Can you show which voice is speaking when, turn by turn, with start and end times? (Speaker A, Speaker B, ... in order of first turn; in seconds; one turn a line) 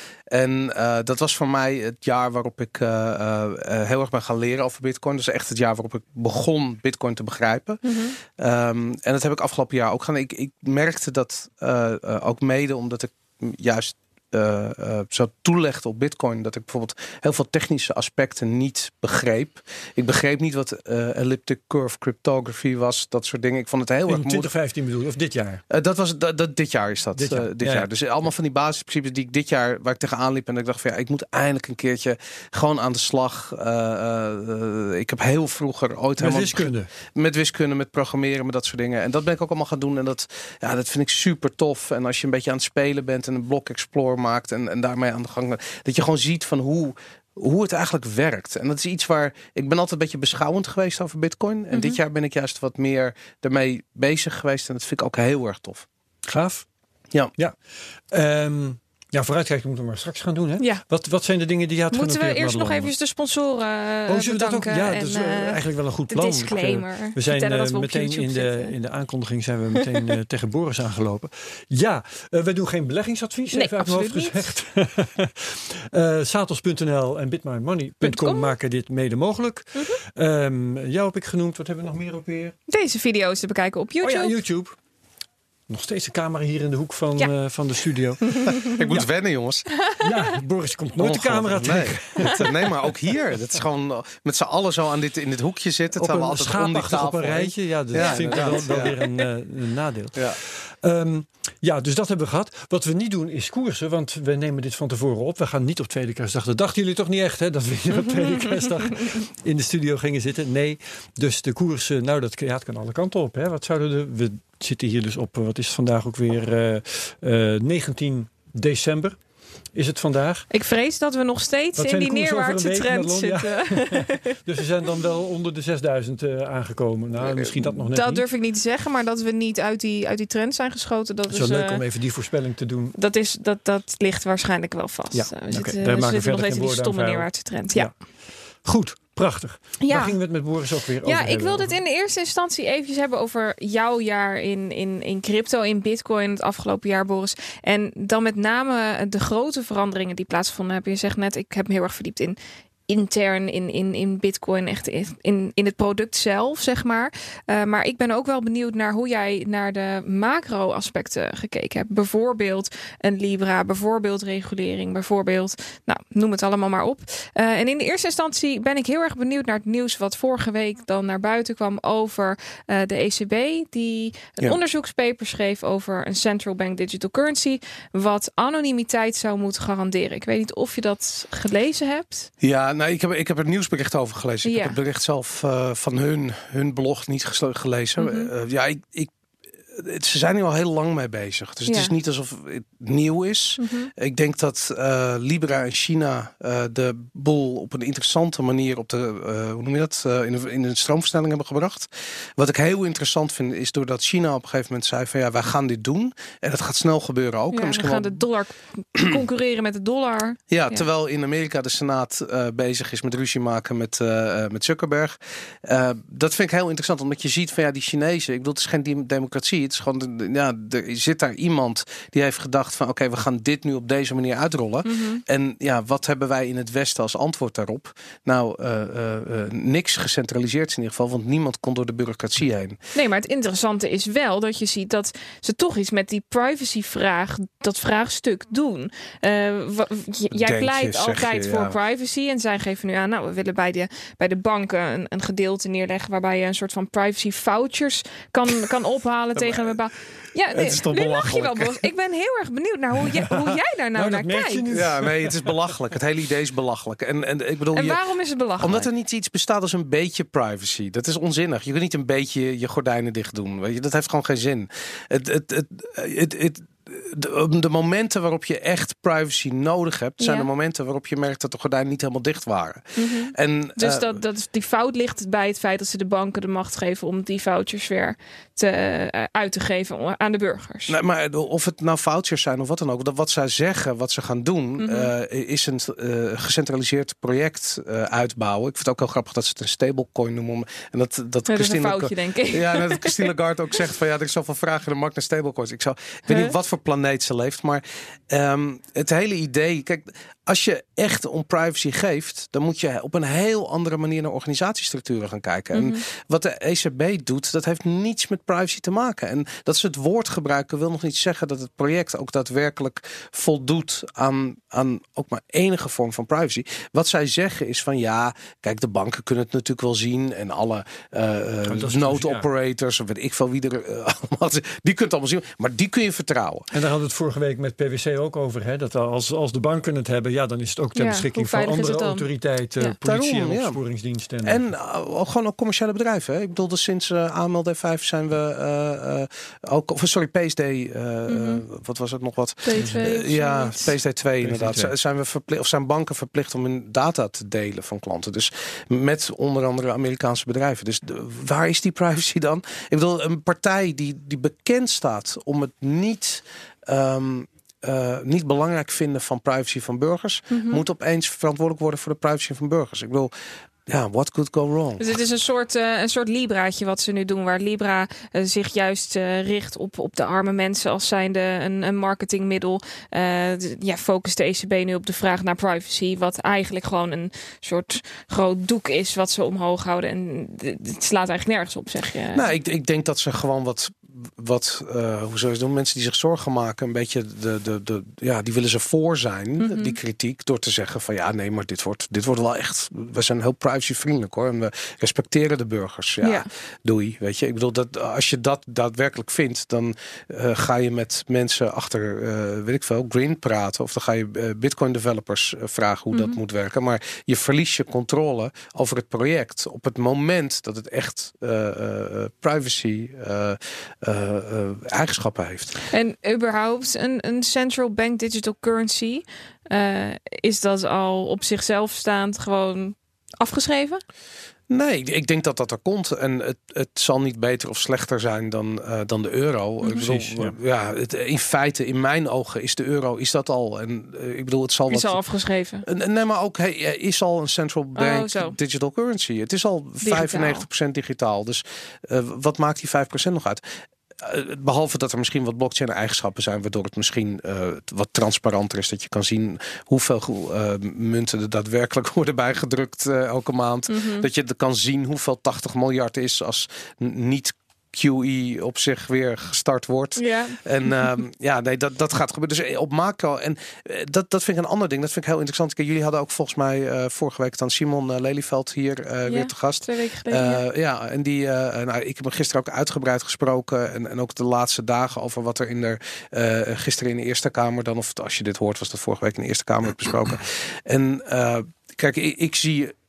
Speaker A: 0.3-24.5
Speaker B: 7.8-8.1
Speaker C: 24.1-25.6
Speaker A: 25.7-55.9
Speaker C: 27.1-27.9
Speaker C: 36.2-36.9
Speaker B: 51.7-52.0
Speaker C: 56.3-56.6
Speaker C: 57.4-62.9
Speaker B: 61.9-68.7
Speaker C: 64.1-82.5
Speaker B: 73.5-74.5
Speaker B: 78.0-78.5
Speaker B: 82.7-84.3
Speaker C: 84.0-84.8
Speaker C: 85.7-88.6
Speaker B: 88.2-89.0
Speaker A: 88.6-89.7
Speaker B: 89.8-90.3
Speaker C: 90.0-92.7
Speaker A: 91.0-99.0
Speaker C: 96.0-119.2
Speaker B: 98.0-99.2
Speaker C: 119.7-120.5
Speaker B: 120.5-124.3
Speaker C: 121.8-128.2
Speaker A: 127.2-127.8
Speaker B: 127.9-131.8
Speaker C: 131.3-132.9
Speaker B: 132.9-137.9
Speaker C: 135.1-141.8
Speaker B: 139.8-140.2
Speaker B: 141.0-152.4
Speaker B: 152.9-182.3
Speaker A: 182.4-189.1
Speaker B: 184.4-184.8
Speaker B: 188.0-188.3
Speaker A: 189.7-208.2
Speaker B: 191.7-191.9
Speaker B: 193.6-193.9
Speaker B: 207.5-210.8
Speaker A: 210.5-232.8
Speaker B: 224.8-225.2
Speaker B: 232.9-254.7
Speaker A: 240.3-241.8
Speaker A: 249.3-249.8
Speaker A: 250.5-251.9
Speaker C: 253.1-255.6
Speaker A: 254.7-258.0
Speaker B: 257.7-258.9
Speaker A: 258.6-274.2
Speaker B: 270.2-270.5
Speaker B: 272.9-280.9
Speaker A: 280.9-326.7
Speaker B: 284.8-285.1
Speaker B: 291.5-293.3
Speaker B: 305.7-306.0
Speaker C: 321.6-322.5
Speaker C: 326.7-334.7
Speaker B: 330.9-332.3
Speaker A: 333.0-333.8
Speaker A: 334.4-363.3
Speaker B: 341.3-341.6
Speaker B: 342.6-343.9
Speaker C: 342.7-343.0
Speaker C: 344.4-344.9
Speaker B: 360.5-360.8
Speaker A: 363.9-365.2
Speaker B: 365.0-382.5
Speaker A: 382.3-415.8
Speaker B: 389.6-390.0
Speaker B: 396.2-396.5
Speaker B: 406.1-406.4
Speaker B: 415.9-424.0
Speaker A: 424.7-435.2
Speaker C: 430.0-430.5
Speaker B: 434.9-435.8
Speaker A: 435.8-443.6
Speaker B: 437.9-438.5
Speaker B: 440.0-440.6
Speaker A: 444.2-482.9
Speaker B: 453.9-454.2
Speaker B: 460.2-461.1
Speaker B: 469.3-470.6